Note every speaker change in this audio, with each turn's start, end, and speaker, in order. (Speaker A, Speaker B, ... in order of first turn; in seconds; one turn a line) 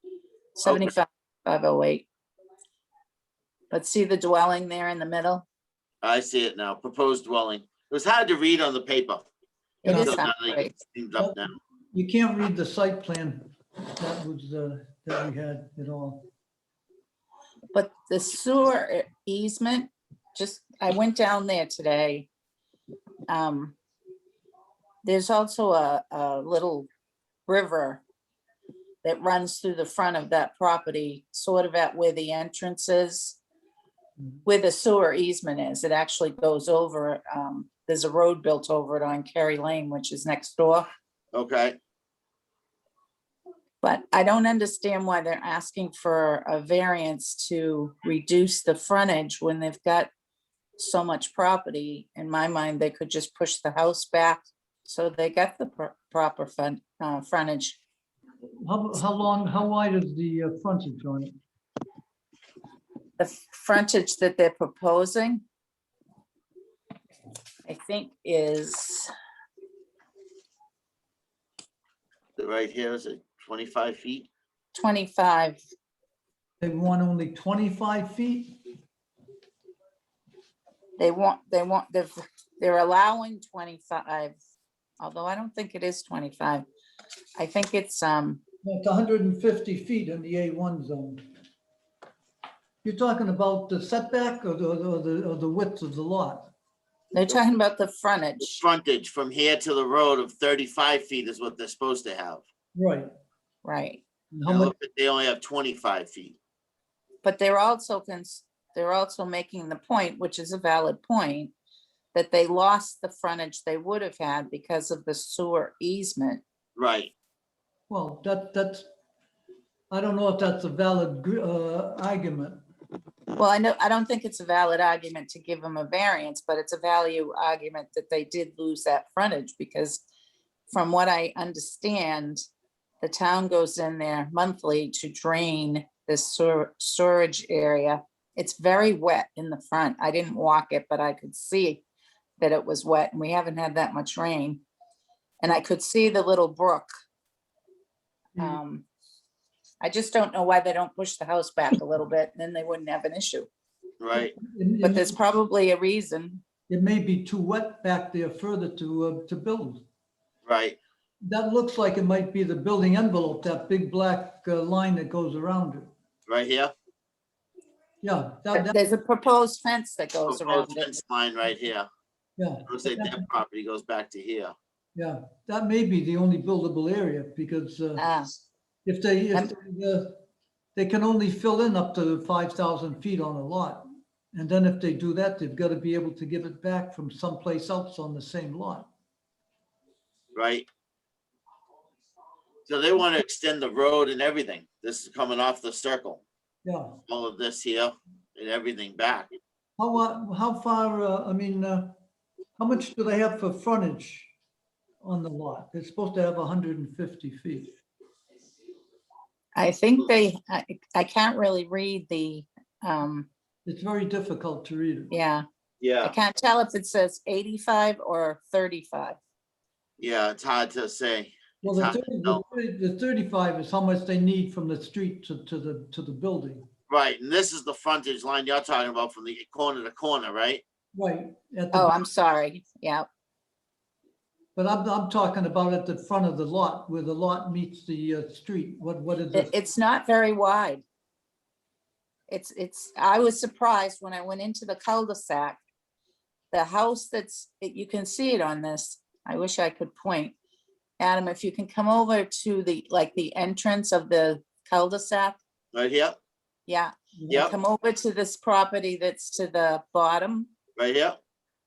Speaker A: 0.6-2.1
Speaker A: 3.7-5.5
Speaker B: 6.0-9.2
Speaker A: 9.8-10.8
Speaker B: 9.8-11.5
Speaker C: 9.8-10.2
Speaker C: 11.2-11.4
Speaker C: 11.9-16.2
Speaker A: 17.7-22.3
Speaker A: 23.3-23.8
Speaker A: 25.0-26.9
Speaker A: 27.5-28.0
Speaker A: 29.0-33.4
Speaker A: 34.5-40.9
Speaker B: 41.3-41.8
Speaker A: 43.8-50.1
Speaker A: 50.8-57.8
Speaker C: 58.6-61.3
Speaker A: 63.2-65.4
Speaker A: 67.7-69.1
Speaker B: 72.4-74.3
Speaker A: 74.7-75.6
Speaker C: 76.6-78.6
Speaker A: 81.0-84.3
Speaker A: 85.0-86.6
Speaker A: 87.4-88.4
Speaker C: 88.6-91.3
Speaker C: 92.8-96.5
Speaker A: 97.1-98.6
Speaker B: 98.5-102.4
Speaker C: 102.7-103.1
Speaker A: 103.6-104.0
Speaker C: 104.3-104.7
Speaker B: 104.5-106.4
Speaker A: 107.2-111.5
Speaker A: 112.1-116.4
Speaker B: 116.8-117.1
Speaker C: 117.9-118.8
Speaker C: 119.9-122.6
Speaker A: 123.4-130.0
Speaker A: 130.7-132.4
Speaker A: 133.0-141.8
Speaker A: 142.4-144.6
Speaker A: 145.4-146.9
Speaker A: 148.4-148.8
Speaker A: 149.8-153.5
Speaker B: 154.0-154.3
Speaker C: 154.1-155.2
Speaker A: 154.8-156.4
Speaker C: 156.7-159.8
Speaker B: 160.4-160.8
Speaker C: 161.2-165.9
Speaker B: 166.3-166.7
Speaker C: 168.0-168.8
Speaker A: 168.5-170.9
Speaker B: 170.3-171.9
Speaker C: 172.4-173.2
Speaker B: 172.7-174.5
Speaker C: 174.9-178.1
Speaker A: 178.0-178.4
Speaker C: 178.8-180.2
Speaker C: 180.8-188.9
Speaker B: 190.3-190.7
Speaker B: 192.7-196.2
Speaker C: 196.6-197.0
Speaker B: 197.1-199.3
Speaker C: 199.8-201.9
Speaker C: 202.6-204.3
Speaker C: 205.0-207.8
Speaker A: 209.6-213.3
Speaker C: 213.7-215.1
Speaker A: 215.1-215.4
Speaker B: 215.8-216.2
Speaker A: 216.0-219.2
Speaker B: 220.0-222.4
Speaker C: 221.6-226.6
Speaker B: 226.9-230.6
Speaker C: 230.9-232.0
Speaker A: 231.7-233.1
Speaker C: 234.6-239.5
Speaker A: 239.3-240.8
Speaker A: 242.3-245.6
Speaker A: 246.5-250.3
Speaker A: 251.0-255.4
Speaker B: 255.7-256.2
Speaker A: 256.7-260.5
Speaker C: 257.1-257.5
Speaker B: 257.3-257.6
Speaker B: 260.8-261.2